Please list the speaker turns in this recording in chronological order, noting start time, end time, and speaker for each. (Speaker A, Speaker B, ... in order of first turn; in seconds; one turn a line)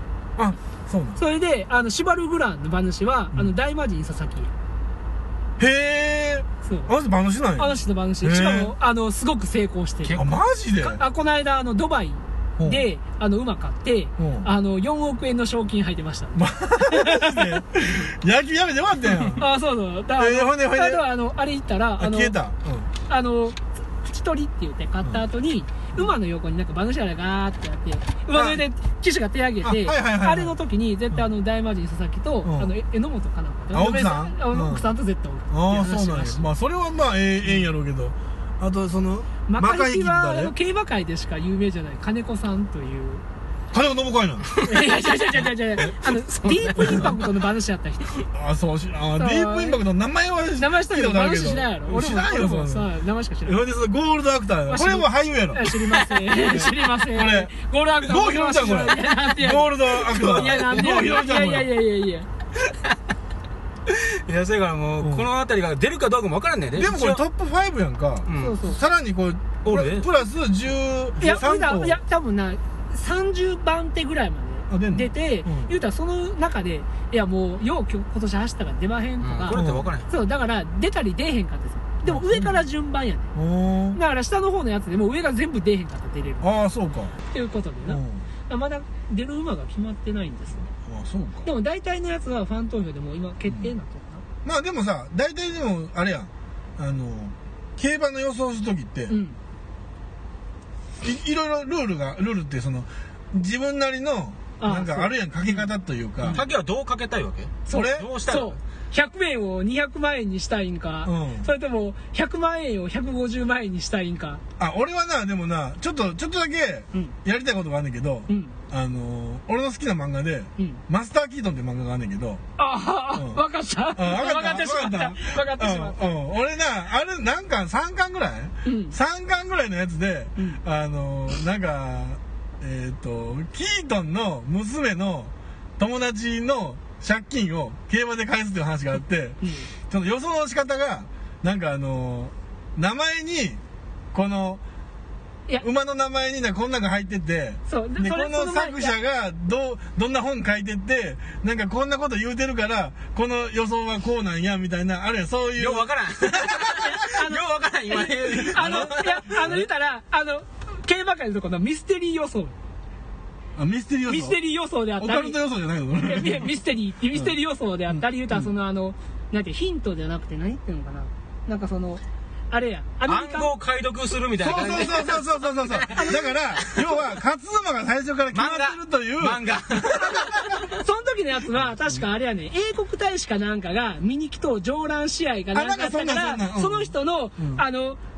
Speaker A: 0.4-1.2
Speaker B: 1.2-4.5
Speaker A: 5.6-8.7
Speaker B: 6.6-6.9
Speaker B: 7.6-10.2
Speaker C: 10.0-10.4
Speaker A: 10.2-11.0
Speaker B: 10.8-17.6
Speaker A: 14.2-14.5
Speaker A: 16.4-19.5
Speaker B: 19.2-22.4
Speaker A: 20.1-21.0
Speaker A: 22.0-22.9
Speaker B: 23.1-36.4
Speaker A: 28.3-28.6
Speaker A: 29.6-30.6
Speaker A: 32.4-32.7
Speaker A: 33.7-34.9
Speaker A: 35.5-40.5
Speaker B: 39.5-43.2
Speaker A: 43.7-44.6
Speaker B: 44.6-48.2
Speaker C: 45.3-47.2
Speaker A: 48.3-52.9
Speaker B: 49.1-49.8
Speaker B: 50.6-53.6
Speaker A: 53.4-55.8
Speaker B: 54.7-62.3
Speaker A: 56.4-61.7
Speaker C: 63.9-67.2
Speaker A: 65.0-65.3
Speaker A: 66.8-72.0
Speaker C: 68.3-68.6
Speaker B: 68.3-68.8
Speaker C: 69.6-70.1
Speaker B: 71.2-83.3
Speaker A: 74.7-75.7
Speaker C: 79.2-80.1
Speaker A: 79.5-79.9
Speaker A: 82.0-82.7
Speaker A: 83.3-84.0
Speaker B: 83.9-86.5
Speaker A: 86.4-87.2
Speaker B: 87.2-90.7
Speaker A: 87.8-88.2
Speaker A: 90.8-91.5
Speaker B: 91.4-94.2
Speaker A: 93.5-93.7
Speaker A: 94.4-99.2
Speaker B: 99.1-99.4
Speaker A: 101.0-106.4
Speaker B: 104.6-105.6
Speaker C: 106.3-108.6
Speaker B: 107.7-114.4
Speaker A: 107.7-108.1
Speaker A: 111.0-111.5
Speaker A: 114.6-122.4
Speaker B: 118.3-118.6
Speaker B: 122.6-126.2
Speaker A: 123.1-143.6
Speaker B: 128.6-128.9
Speaker B: 139.4-139.7
Speaker A: 144.1-144.6
Speaker A: 145.6-156.9
Speaker B: 147.7-148.9
Speaker C: 155.6-159.6
Speaker B: 156.7-162.6
Speaker A: 158.6-159.6
Speaker A: 163.6-164.4
Speaker B: 164.1-165.4
Speaker A: 165.0-166.5
Speaker B: 166.0-173.5
Speaker A: 167.9-168.5
Speaker C: 173.1-177.0
Speaker A: 174.4-180.7
Speaker B: 174.5-175.0
Speaker B: 175.9-176.4
Speaker C: 178.3-180.6
Speaker B: 180.6-188.0
Speaker A: 181.6-182.0
Speaker A: 185.5-187.6